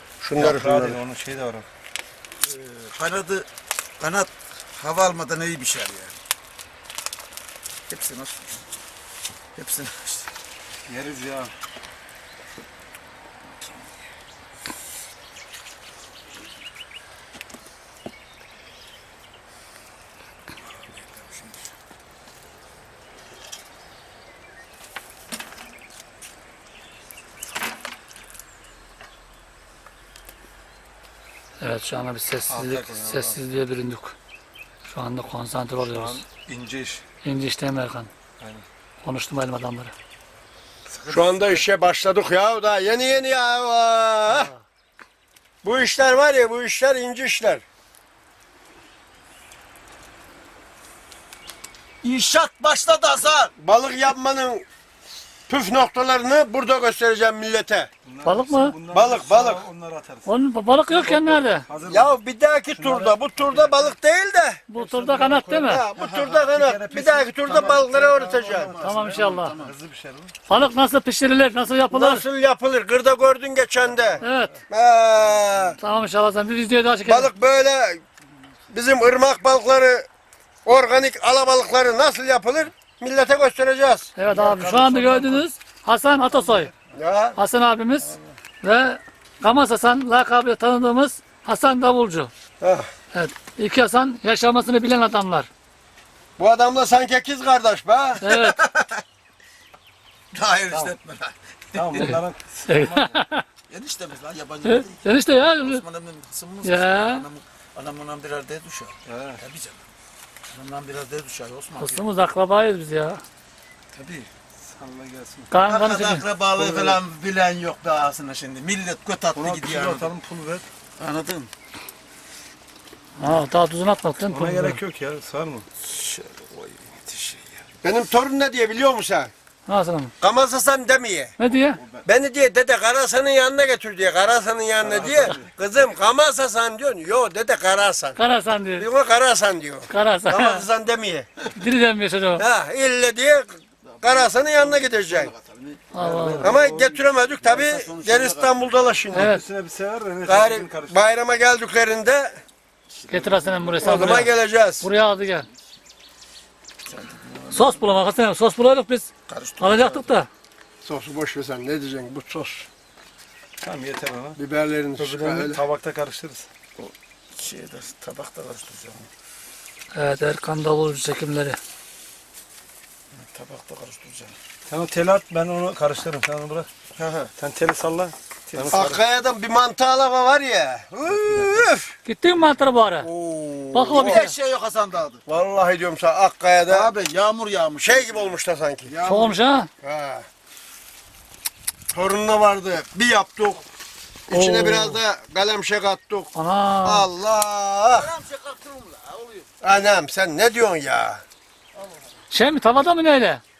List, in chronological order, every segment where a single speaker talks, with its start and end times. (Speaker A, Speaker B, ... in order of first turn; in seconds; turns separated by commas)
Speaker A: 0.2-1.0, Speaker B: 0.4-1.6, Speaker C: 2.4-3.5, Speaker C: 4.0-6.2, Speaker C: 7.9-8.6, Speaker C: 9.6-10.3, Speaker B: 10.9-11.5, Speaker C: 20.9-21.6, Speaker D: 31.6-34.1, Speaker B: 32.5-33.4, Speaker D: 34.9-36.2, Speaker B: 35.9-37.0, Speaker D: 37.2-38.1, Speaker B: 38.4-38.6, Speaker D: 39.0-39.9, Speaker B: 40.9-41.6, Speaker A: 41.1-44.5, Speaker D: 44.3-44.6, Speaker A: 45.6-47.6, Speaker C: 52.0-53.5, Speaker A: 53.6-54.6, Speaker A: 55.5-57.9, Speaker B: 58.1-60.3, Speaker D: 58.2-58.8, Speaker A: 58.9-59.6, Speaker D: 60.2-61.7, Speaker B: 60.9-62.2, Speaker A: 61.9-64.6, Speaker B: 62.8-63.9, Speaker D: 64.7-65.8, Speaker B: 64.8-70.3, Speaker A: 65.6-68.7, Speaker C: 67.4-69.8, Speaker D: 68.8-69.5, Speaker D: 70.5-72.2, Speaker A: 71.9-75.8, Speaker D: 74.2-74.5, Speaker D: 75.8-77.3, Speaker A: 77.0-78.0, Speaker A: 78.7-80.1, Speaker A: 80.6-84.1, Speaker D: 84.2-86.7, Speaker B: 84.3-85.4, Speaker B: 86.3-86.7, Speaker A: 86.9-87.4, Speaker D: 87.4-92.3, Speaker A: 92.6-92.9, Speaker D: 93.1-95.5, Speaker A: 96.4-98.2, Speaker C: 98.2-99.0, Speaker D: 98.2-98.6, Speaker C: 100.3-102.1, Speaker B: 101.7-103.2, Speaker D: 102.0-103.5, Speaker C: 103.7-109.8, Speaker D: 104.6-105.8, Speaker D: 106.6-107.2, Speaker B: 109.0-109.4, Speaker C: 110.5-112.0, Speaker D: 111.8-113.2, Speaker C: 113.9-114.3, Speaker B: 114.7-115.5, Speaker D: 115.5-116.2, Speaker C: 115.7-120.1, Speaker B: 116.5-117.0, Speaker B: 119.3-120.7, Speaker C: 121.0-121.5, Speaker D: 123.2-124.8, Speaker B: 124.3-125.7, Speaker C: 125.8-127.6, Speaker A: 127.8-129.3, Speaker D: 129.7-130.1, Speaker A: 130.2-131.3, Speaker D: 131.4-131.8, Speaker A: 132.0-138.2, Speaker B: 134.8-135.5, Speaker D: 138.2-138.9, Speaker A: 138.8-141.3, Speaker D: 139.9-140.6, Speaker D: 141.5-142.4, Speaker A: 142.4-145.3, Speaker C: 143.8-145.9, Speaker D: 145.9-146.5, Speaker B: 146.0-147.0, Speaker A: 146.4-149.4, Speaker C: 147.1-149.0, Speaker D: 149.1-149.4, Speaker B: 149.1-151.0, Speaker A: 150.2-152.4, Speaker C: 152.9-153.8, Speaker D: 153.1-155.4, Speaker B: 153.8-154.3, Speaker A: 153.8-154.9, Speaker C: 156.9-157.9, Speaker D: 157.5-159.1, Speaker C: 159.3-160.1, Speaker D: 159.6-160.3, Speaker A: 160.8-162.7, Speaker B: 163.6-164.4, Speaker A: 164.4-165.6, Speaker B: 165.0-166.5, Speaker C: 166.8-169.1, Speaker D: 169.9-171.6, Speaker C: 173.1-174.3, Speaker B: 174.7-176.7, Speaker A: 177.0-177.3, Speaker B: 177.4-179.0, Speaker C: 178.6-178.8, Speaker A: 178.7-181.9, Speaker D: 182.0-183.1, Speaker A: 183.0-184.3, Speaker D: 183.7-184.3, Speaker C: 183.9-185.2, Speaker A: 185.3-186.9, Speaker C: 186.7-188.3, Speaker A: 187.8-188.9, Speaker C: 188.9-189.4, Speaker D: 189.0-189.7, Speaker A: 189.8-190.2, Speaker A: 191.9-193.6, Speaker A: 194.3-196.3, Speaker D: 194.3-195.0, Speaker D: 196.3-197.1, Speaker A: 196.8-198.1, Speaker C: 197.9-199.5, Speaker A: 199.6-201.2, Speaker D: 202.3-203.4